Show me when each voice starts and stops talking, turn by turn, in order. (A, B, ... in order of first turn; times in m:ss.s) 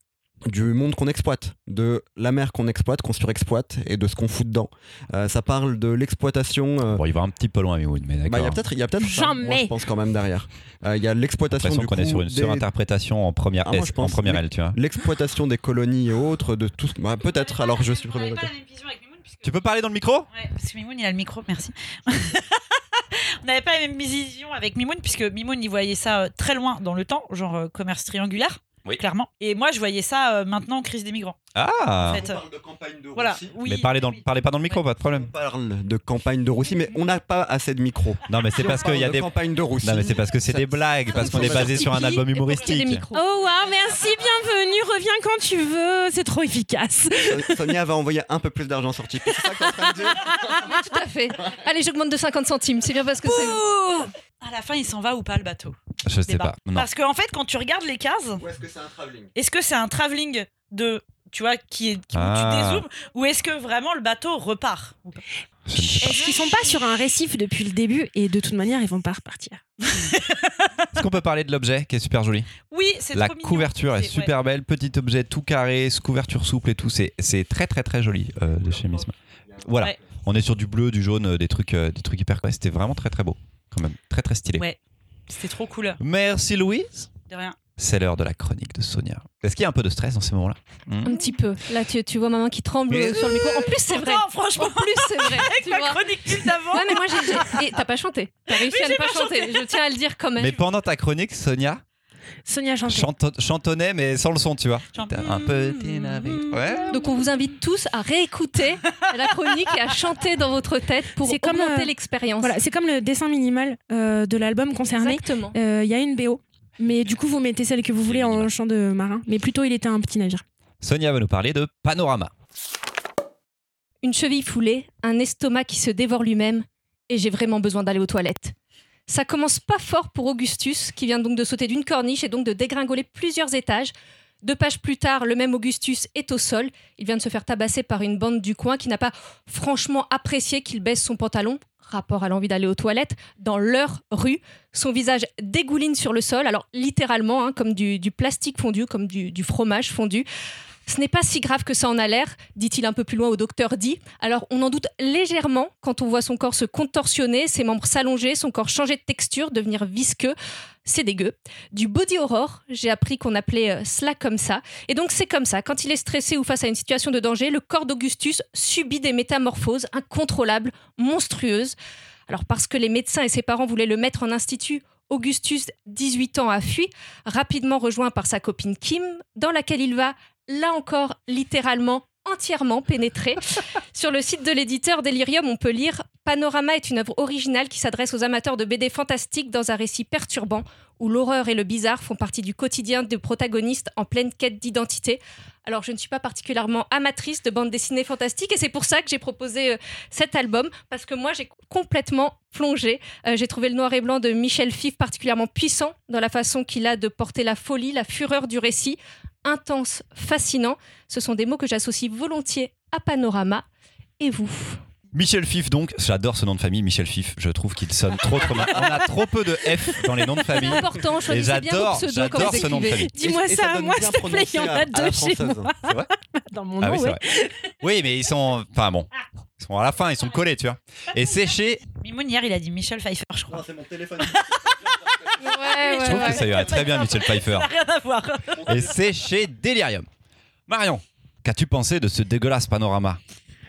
0:00.5-0:07.0 A
0:06.9-0:08.6 B
0:08.3-0:12.7 A
0:09.0-0:09.7 C
0:11.6-0:14.8 B
0:13.6-0:18.5 A
0:17.2-0:19.5 D
0:19.4-0:20.3 B
0:20.3-0:31.4 D
0:31.6-0:32.2 B
0:32.0-0:33.6 A
0:32.0-0:32.4 D
0:33.2-0:34.8 D
0:33.6-0:35.3 B
0:35.0-0:42.0 A
0:38.3-0:39.3 B
0:39.8-0:43.0 B
0:41.3-0:43.3 E
0:43.1-0:47.6 C
0:47.3-0:50.6 A
0:49.9-0:50.7 C
0:50.7-0:53.6 E
0:53.2-0:55.8 D
0:56.0-0:56.9 B
0:56.3-0:58.4 D
0:58.4-0:59.3 A
0:59.4-1:05.2 D
1:02.1-1:02.8 B
1:05.7-1:06.3 B
1:05.8-1:10.0 C
1:09.9-1:10.7 D
1:10.9-1:12.5 B
1:12.7-1:14.3 D
1:13.1-1:24.7 B
1:18.7-1:19.6 A
1:25.3-1:26.0 D
1:26.0-1:27.1 B
1:27.3-1:27.6 D
1:27.8-1:31.2 B
1:31.0-1:40.6 E
1:32.9-1:33.6 B
1:33.4-1:37.6 D
1:38.5-1:39.7 D
1:40.4-1:41.8 B
1:42.5-1:43.1 C
1:42.9-1:46.9 B
1:45.0-1:46.6 D
1:46.9-1:52.6 E
1:51.2-2:00.4 C
1:55.0-1:55.6 E
1:58.1-1:58.5 B
2:00.8-2:02.3 B
2:04.0-2:08.6 E
2:09.1-2:30.3 E
2:30.9-2:51.8 E
2:52.3-3:33.6 E
3:34.2-3:34.8 E
3:35.1-3:43.1 B
3:38.5-3:39.0 C
3:39.9-3:40.3 C
3:40.5-3:43.1 E
3:42.4-3:47.7 C
3:43.2-3:45.7 A
3:46.8-3:47.2 B
3:47.8-3:49.1 B
3:49.6-3:51.8 B
3:52.0-3:53.6 D
3:53.5-3:55.4 A
3:54.2-3:58.9 D
3:55.5-3:56.5 C
3:55.6-3:56.1 E
3:56.0-3:57.7 B
3:58.6-3:58.9 A
3:58.6-4:00.1 B
4:00.7-4:03.2 B